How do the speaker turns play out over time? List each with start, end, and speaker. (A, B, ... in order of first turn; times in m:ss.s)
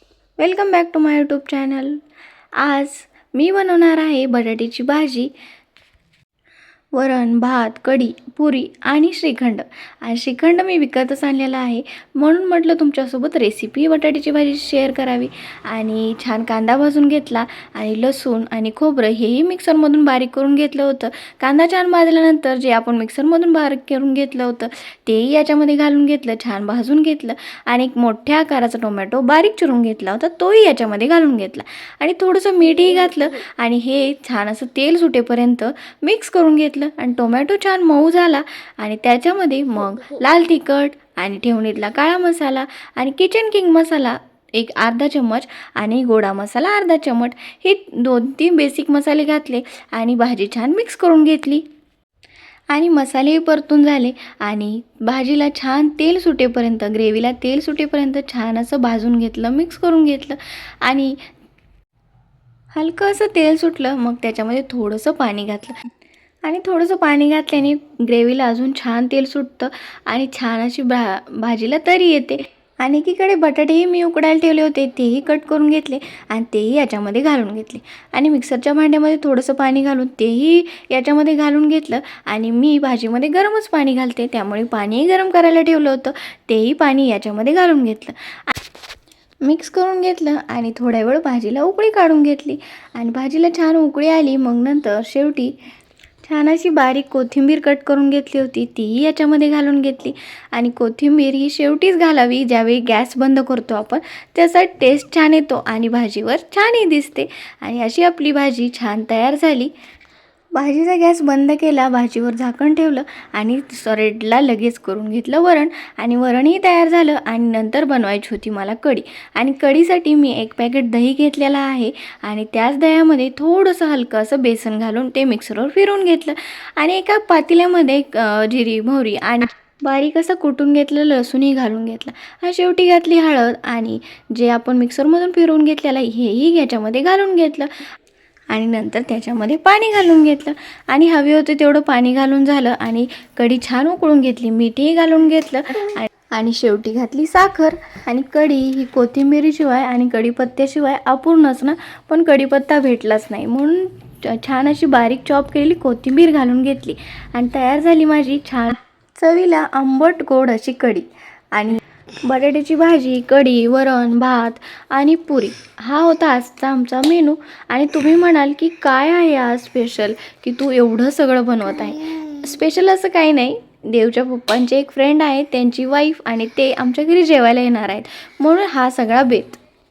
0:00.4-0:02.0 A
0:02.6-0:05.3 A
0:06.9-0:51.6 A
0:52.7-1:01.2 A
1:02.7-1:05.8 A
1:06.4-1:28.5 A
1:29.4-1:35.5 A
1:36.2-1:49.7 A
1:50.5-2:17.7 A
2:18.5-2:59.6 A